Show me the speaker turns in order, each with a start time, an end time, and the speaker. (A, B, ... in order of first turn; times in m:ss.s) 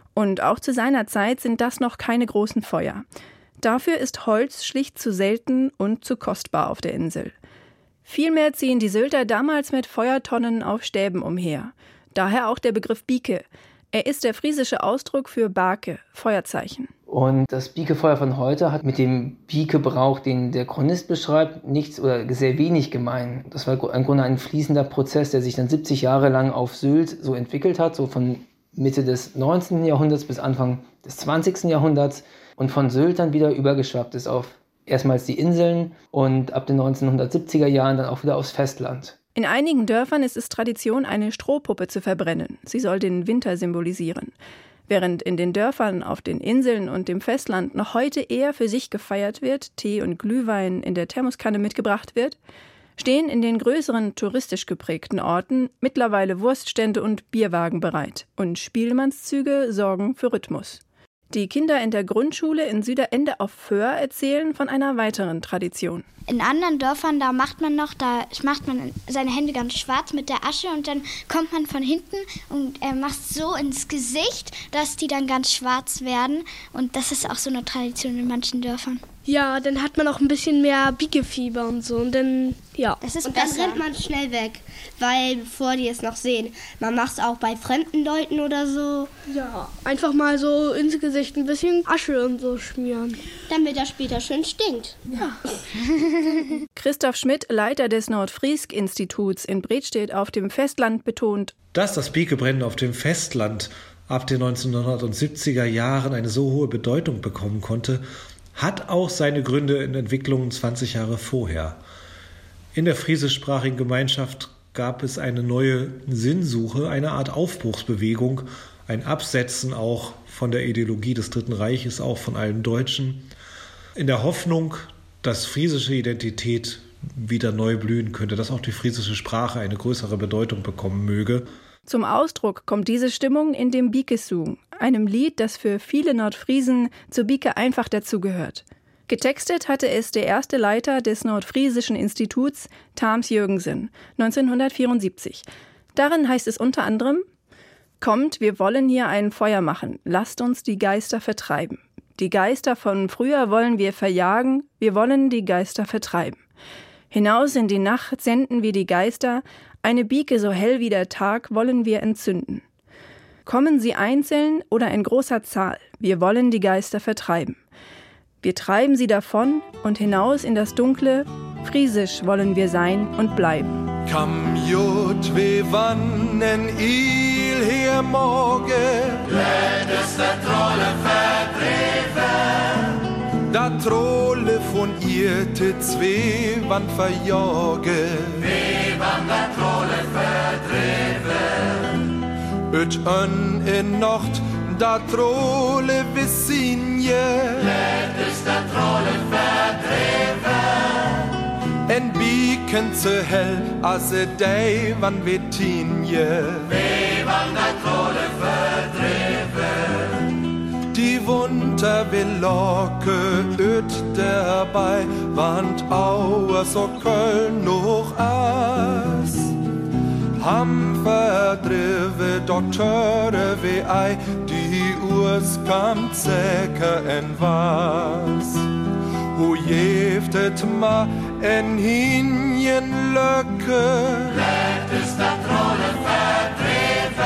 0:00.2-0:03.1 A
0:03.6-0:07.4 A
0:08.0-0:16.9 A
0:17.1-0:39.2 B
0:39.4-0:44.4 A
0:44.9-0:52.4 A
0:53.0-1:06.0 A
1:06.3-1:19.0 C
1:19.3-1:23.0 D
1:23.0-1:23.8 C
1:23.2-1:29.1 E
1:29.3-1:33.1 D
1:33.5-1:35.0 E
1:36.8-1:41.5 A
1:41.7-1:48.0 F
1:48.6-1:51.8 F
1:52.8-2:03.3 F
2:04.0-2:11.4 F
2:11.9-2:27.2 A
2:28.0-2:36.4 A
2:37.1-2:42.6 A
2:43.4-2:47.6 A
2:48.4-2:53.8 A
2:54.1-2:59.5 G
3:03.5-3:08.7 G
3:12.7-3:18.0 G
3:21.9-3:27.0 G
3:30.9-3:39.6 G
3:40.4-3:48.7 G
3:49.3-3:54.6 G